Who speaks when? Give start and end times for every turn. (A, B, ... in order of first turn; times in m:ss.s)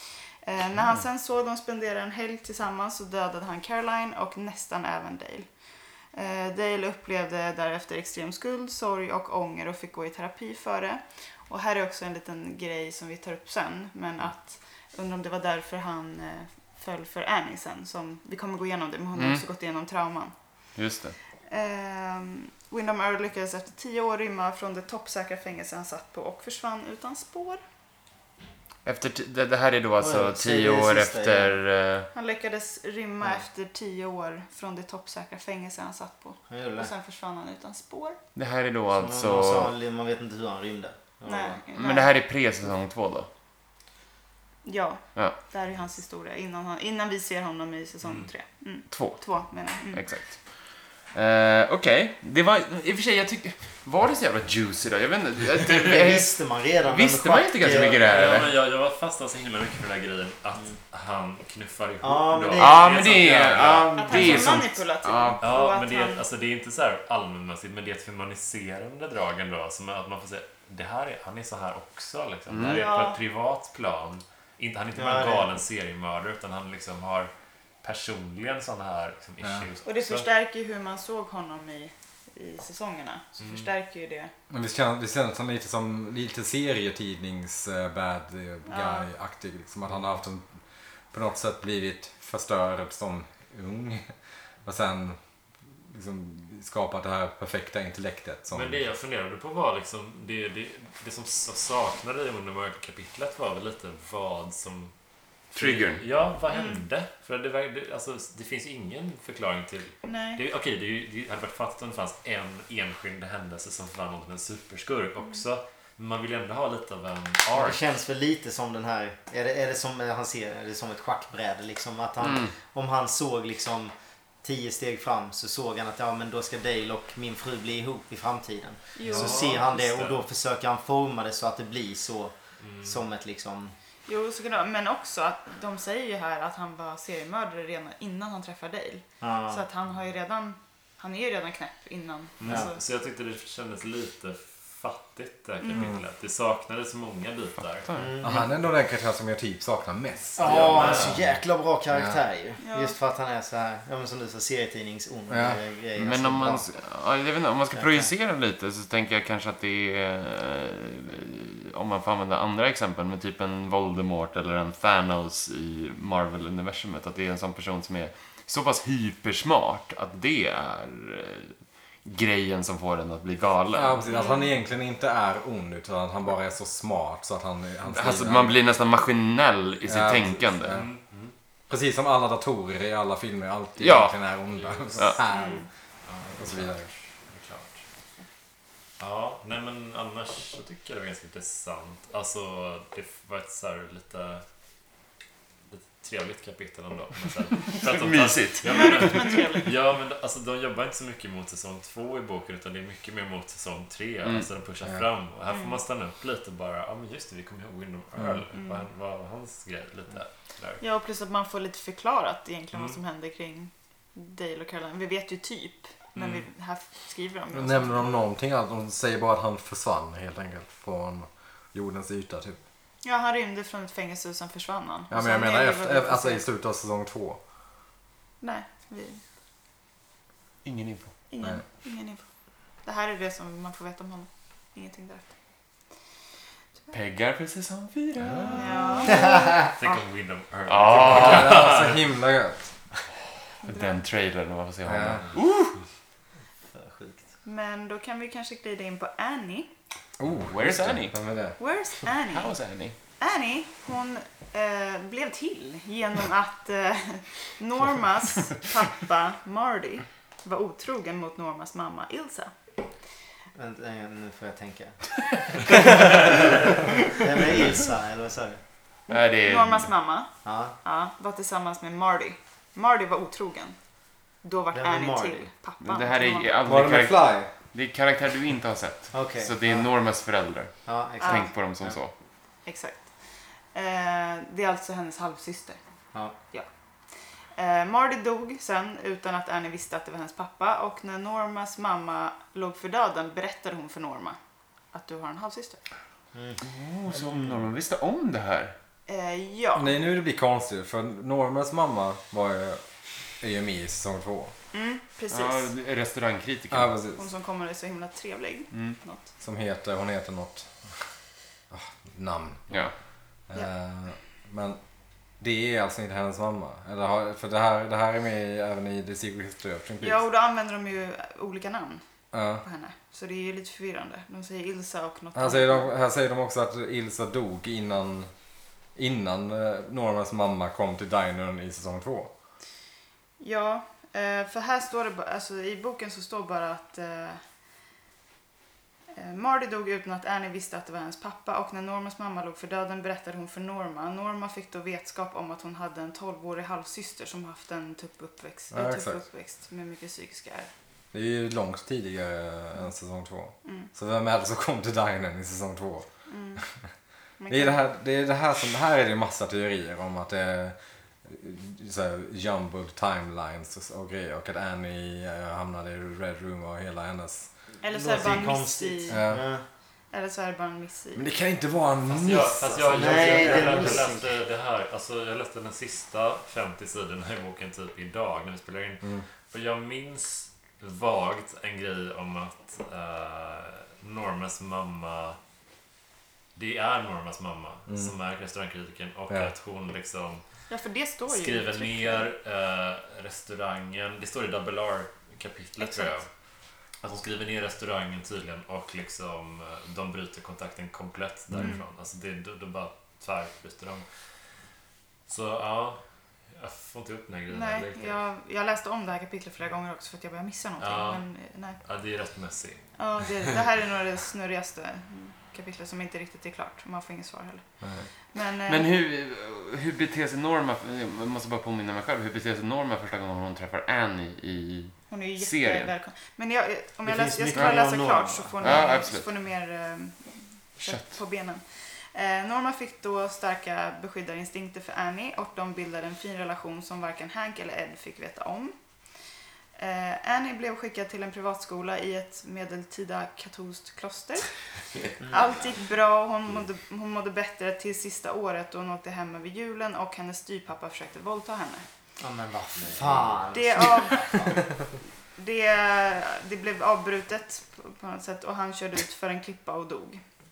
0:00.4-0:05.5 A
0:06.1-0:20.3 A
0:19.1-0:19.4 B
0:20.7-0:21.1 B
0:21.5-0:27.6 A
0:28.8-0:32.1 B
0:30.0-0:31.6 C
0:32.1-0:38.2 A
0:36.5-0:36.9 C
0:38.3-0:39.7 B
0:38.9-0:41.6 C
0:41.2-0:42.1 A
0:41.7-0:43.3 B
0:44.6-0:50.3 A
0:48.0-0:48.3 D
0:48.9-0:58.5 B
0:55.8-0:58.1 C
0:57.6-1:04.5 D
1:02.0-1:03.0 C
1:02.6-1:05.5 B
1:04.0-1:06.2 A
1:05.4-1:17.3 D
1:12.5-1:12.8 B
1:12.7-1:13.2 A
1:15.0-1:15.6 C
1:17.8-1:20.3 D
1:19.8-1:24.3 A
1:23.4-1:23.7 D
1:24.5-1:34.1 E
1:28.7-1:29.0 A
1:34.6-1:35.2 E
1:35.9-1:38.8 E
1:38.5-1:44.9 D
1:45.5-1:57.8 D
1:45.5-1:46.0 B
1:46.5-1:46.8 A
1:50.1-1:50.4 A
1:57.5-2:13.7 C
2:02.2-2:02.5 B
2:09.0-2:09.6 A
2:09.0-2:10.2 D
2:12.6-2:13.0 D
2:14.1-2:22.8 A
2:19.2-2:19.6 C
2:22.4-2:27.9 D
2:25.6-2:25.9 A
2:27.8-2:28.1 B
2:27.9-2:28.5 C
2:28.2-2:31.3 E
2:30.4-2:36.6 C
2:30.4-2:31.2 D
2:31.9-2:32.2 E
2:32.6-2:32.9 A
2:35.3-2:35.6 E
2:36.0-2:54.0 B
2:37.7-2:38.1 C
2:53.7-2:58.6 E
2:54.1-2:54.5 A
2:57.8-3:00.8 B
2:59.8-3:00.9 E
3:00.7-3:01.3 D
3:01.7-3:05.6 E
3:03.8-3:04.2 B
3:04.5-3:05.2 D
3:05.3-3:05.6 A
3:06.0-3:07.8 D
3:06.3-3:06.9 E
3:09.0-3:14.4 D
3:15.7-3:30.8 D
3:17.8-3:19.6 B
3:18.8-3:19.7 A
3:25.5-3:25.8 A
3:28.2-3:28.4 E
3:28.5-3:28.8 A
3:30.8-3:38.1 A
3:32.7-3:33.0 D
3:36.1-3:36.4 D
3:37.5-3:42.6 E
3:43.0-3:46.4 A
3:45.1-3:47.4 E
3:48.4-3:49.2 A
3:50.6-3:51.1 B
3:51.3-3:52.2 A
3:52.8-3:55.3 A
3:56.9-3:59.3 B
3:58.2-3:58.8 E
3:58.5-4:00.0 A
3:59.2-3:59.5 C
3:59.6-4:02.0 D
4:00.7-4:01.7 B
4:01.0-4:02.7 E
4:03.6-4:04.0 A
4:03.6-4:05.8 B
4:04.8-4:05.2 E
4:06.7-4:07.2 C
4:07.4-4:09.7 A
4:10.2-4:11.6 E
4:10.4-4:11.2 B
4:11.6-4:12.6 A
4:12.3-4:13.0 B
4:13.2-4:22.5 A
4:23.5-4:25.1 C
4:25.7-4:26.5 C
4:27.1-4:28.6 C
4:29.1-4:30.0 B
4:29.1-4:36.5 A
4:30.4-4:30.7 C
4:34.7-4:35.5 C
4:35.8-4:42.1 B
4:36.6-4:37.5 E
4:39.1-4:39.9 C
4:40.8-4:42.0 C
4:41.2-4:41.5 A
4:42.6-4:45.8 A
4:46.4-4:46.7 A
4:47.5-4:54.4 A
4:54.9-4:55.8 A
4:56.3-4:57.6 C
4:56.6-4:58.7 B
4:59.1-4:59.9 A
4:59.7-5:04.5 E
5:04.7-5:05.7 A
5:05.3-5:07.0 B
5:06.7-5:07.2 E
5:07.2-5:09.2 A
5:08.7-5:09.0 B
5:09.4-5:10.7 E
5:11.7-5:12.7 E
5:13.5-5:14.8 E
5:15.4-5:20.2 E
5:20.0-5:22.0 A
5:22.3-5:22.6 E
5:22.6-5:25.9 A
5:25.3-5:28.3 E
5:28.9-5:32.3 E
5:33.4-5:37.4 A
5:39.1-5:50.7 A
5:48.7-5:49.2 E
5:51.1-5:56.1 E
5:56.3-5:56.6 A
5:57.4-5:57.8 A
5:57.5-6:07.5 E
6:07.8-6:09.2 A
6:07.8-6:09.6 C
6:09.1-6:09.5 E
6:10.1-6:11.2 A
6:11.1-6:13.8 E
6:12.1-6:25.4 D
6:12.9-6:14.4 C
6:26.6-6:30.4 D
6:30.7-6:32.3 A
6:31.3-6:36.3 D
6:35.8-6:36.1 A
6:37.0-6:44.0 D
6:41.6-6:41.8 A
6:45.3-6:46.0 D
6:46.5-6:48.2 D
6:47.5-6:51.8 A
6:50.8-6:51.2 D
6:51.8-6:52.8 D
6:53.0-6:57.6 A
6:57.8-6:58.1 E
6:58.3-6:58.9 A
6:58.7-7:05.9 B
7:05.1-7:18.7 A
7:07.0-7:09.0 C
7:08.6-7:09.3 B
7:10.8-7:11.1 B
7:19.8-7:24.7 A
7:25.2-7:25.7 C
7:25.2-7:31.8 A
7:32.2-7:34.6 C
7:33.5-7:34.5 A
7:35.4-7:40.2 A